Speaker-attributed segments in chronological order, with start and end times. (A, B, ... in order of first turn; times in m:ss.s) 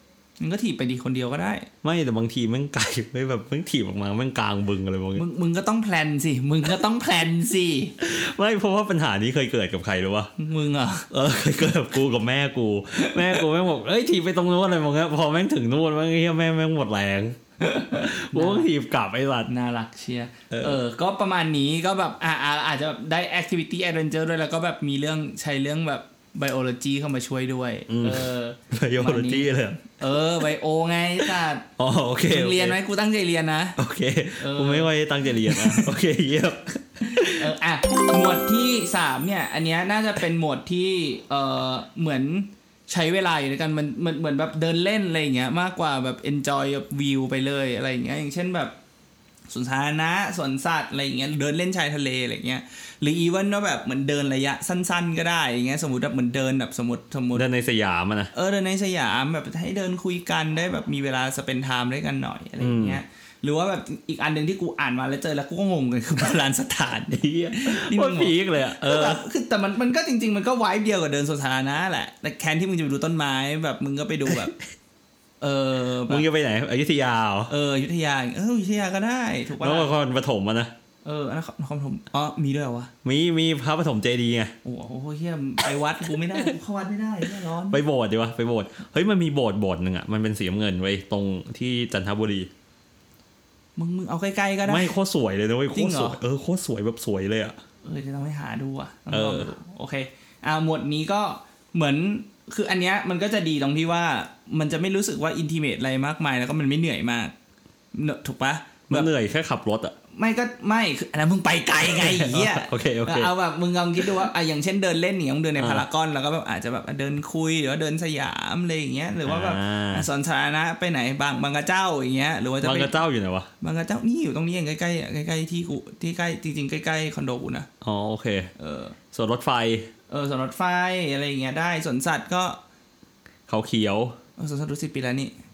0:00.4-0:01.7 A
0:01.8-0:05.2 B
0:05.2-0:08.0 A
0:08.0-0:10.3 B
0:10.4-0:11.1 A
0:11.1-0:19.5 B
0:13.0-0:13.4 A
0:17.6-0:18.7 A
0:19.5-0:31.7 A
0:20.5-0:20.8 B
0:27.9-0:30.0 B
0:31.8-0:32.8 B
0:32.3-0:33.8 A
0:33.8-0:37.5 B
0:34.4-0:35.9 A
0:37.1-0:48.8 A
0:49.5-0:57.5 A
0:57.3-0:58.3 B
0:58.3-1:14.6 A
1:02.6-1:03.0 B
1:07.1-1:09.2 B
1:15.4-1:16.3 A
1:16.1-1:17.5 B
1:17.5-1:19.9 A
1:19.6-1:20.7 B
1:21.0-1:22.9 A
1:23.0-1:24.5 B
1:24.6-1:27.8 A
1:27.7-1:32.5 B
1:33.8-1:34.9 A
1:34.7-1:37.6 B
1:35.7-1:36.2 A
1:37.8-1:47.3 A
1:39.1-1:39.5 B
1:47.9-1:49.1 A
1:48.9-1:50.0 B
1:50.1-2:03.0 A
1:51.8-1:53.3 B
1:55.6-1:55.8 B
1:59.2-2:00.1 B
2:02.6-2:03.5 B
2:03.6-2:07.7 A
2:07.8-2:08.5 B
2:08.6-2:09.0 A
2:09.1-2:09.9 B
2:10.1-2:12.6 A
2:13.5-2:14.2 B
2:14.4-2:15.3 A